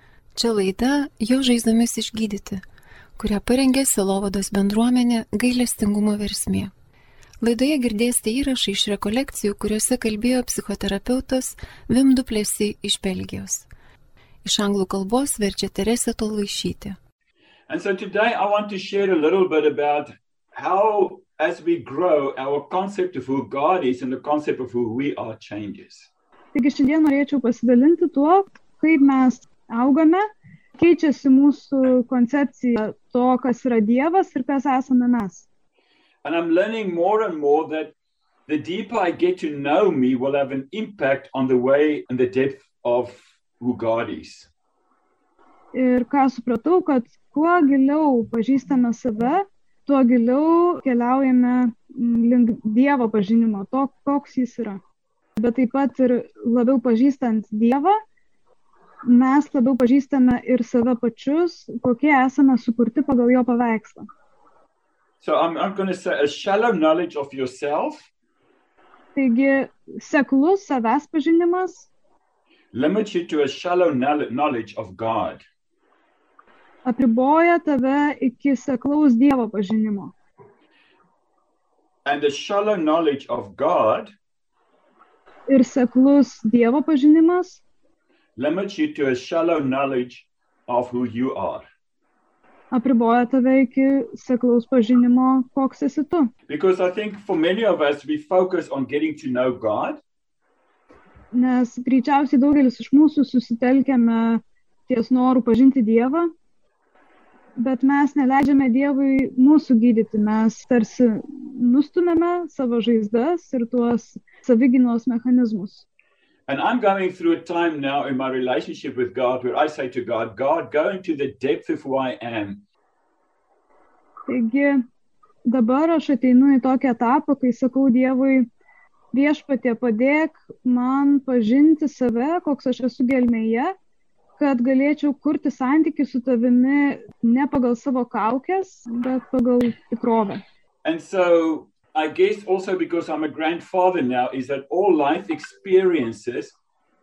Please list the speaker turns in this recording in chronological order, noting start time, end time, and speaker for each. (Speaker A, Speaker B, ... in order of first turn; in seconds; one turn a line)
Speaker A: 0.3-2.6
Speaker A: 3.2-6.7
Speaker A: 7.4-13.7
Speaker A: 14.4-17.0
Speaker B: 17.7-26.1
Speaker C: 26.5-30.2
Speaker C: 30.8-35.5
Speaker B: 36.2-37.9
Speaker B: 38.5-44.5
Speaker C: 45.7-54.8
Speaker C: 55.4-58.0
Speaker C: 59.0-64.1
Speaker B: 65.2-68.1
Speaker C: 69.2-71.9
Speaker B: 72.7-75.4
Speaker C: 76.9-80.1
Speaker B: 82.0-84.1
Speaker C: 85.5-87.6
Speaker B: 88.4-91.7
Speaker C: 92.7-96.3
Speaker B: 96.5-100.0
Speaker C: 101.3-106.3
Speaker C: 107.6-115.8
Speaker B: 116.5-122.6
Speaker C: 124.3-124.8
Speaker C: 125.5-128.5
Speaker C: 129.1-133.7
Speaker C: 134.4-140.4
Speaker B: 140.8-146.6